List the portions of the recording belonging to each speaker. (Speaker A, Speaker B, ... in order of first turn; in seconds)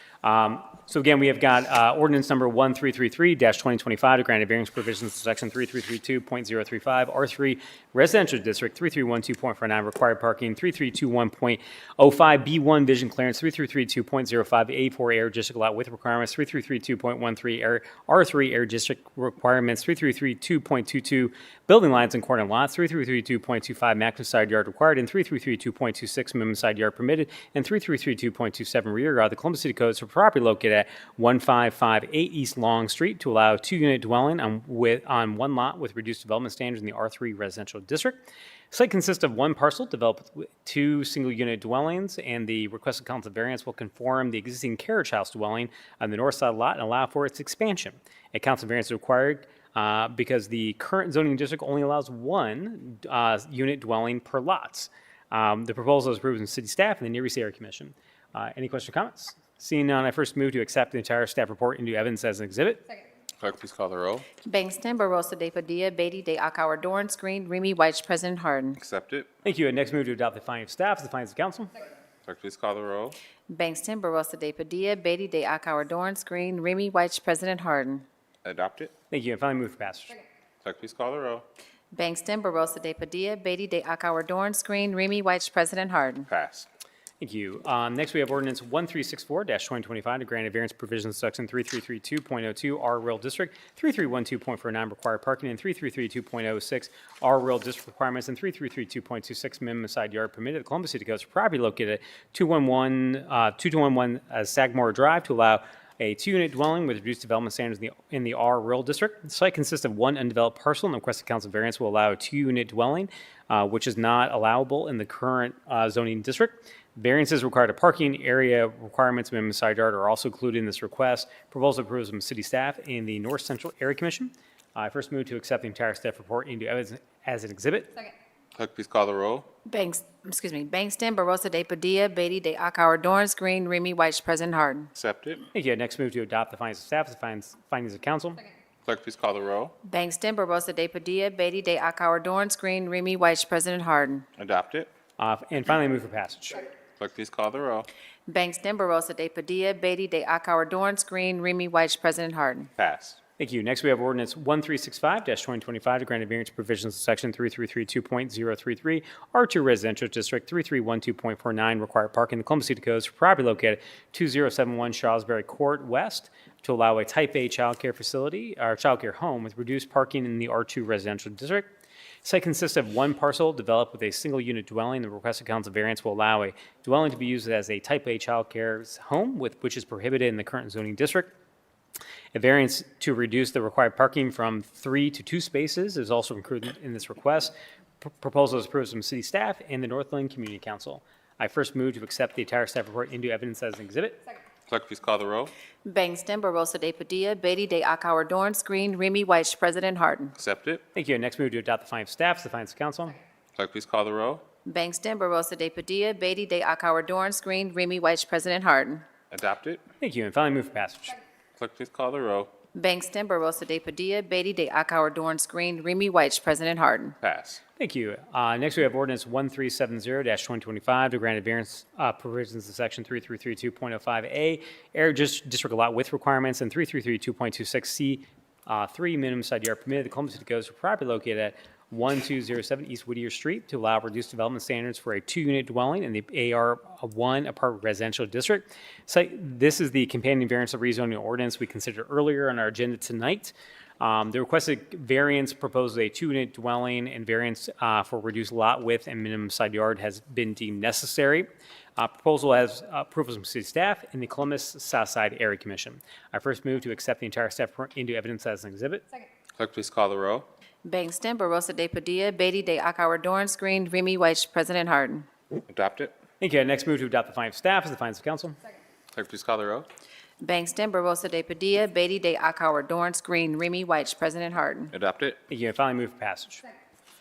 Speaker A: 0.2-62.9, 69.4-71.7, 79.1-80.2, 87.2-128.0, 135.5-138.4, 145.2-146.7, 153.4-171.7, 172.2-181.3, 182.3-194.2, 200.9-203.2, 210.0-211.2, 217.8-259.1, 266.4-268.6, 275.5-276.6
Speaker B: 63.4-64.3, 68.8-69.3, 72.3-73.2, 78.4-78.9, 80.6-81.5, 86.3-86.7, 128.6-129.5, 134.9-135.4, 138.8-139.8, 144.4-144.9, 147.0-147.9, 152.8-153.2, 194.7-195.5, 200.4-200.8, 203.6-204.4, 209.3-209.8, 211.6-212.5, 217.2-217.6, 259.6-260.5, 265.7-266.1, 269.1-269.9, 274.9-275.4
Speaker C: 64.4-68.8, 73.5-78.1, 81.9-86.3, 129.7-134.9, 139.8-144.3, 148.3-152.7, 195.8-200.3, 204.7-209.1, 212.7-217.2, 260.8-265.3, 270.4-274.9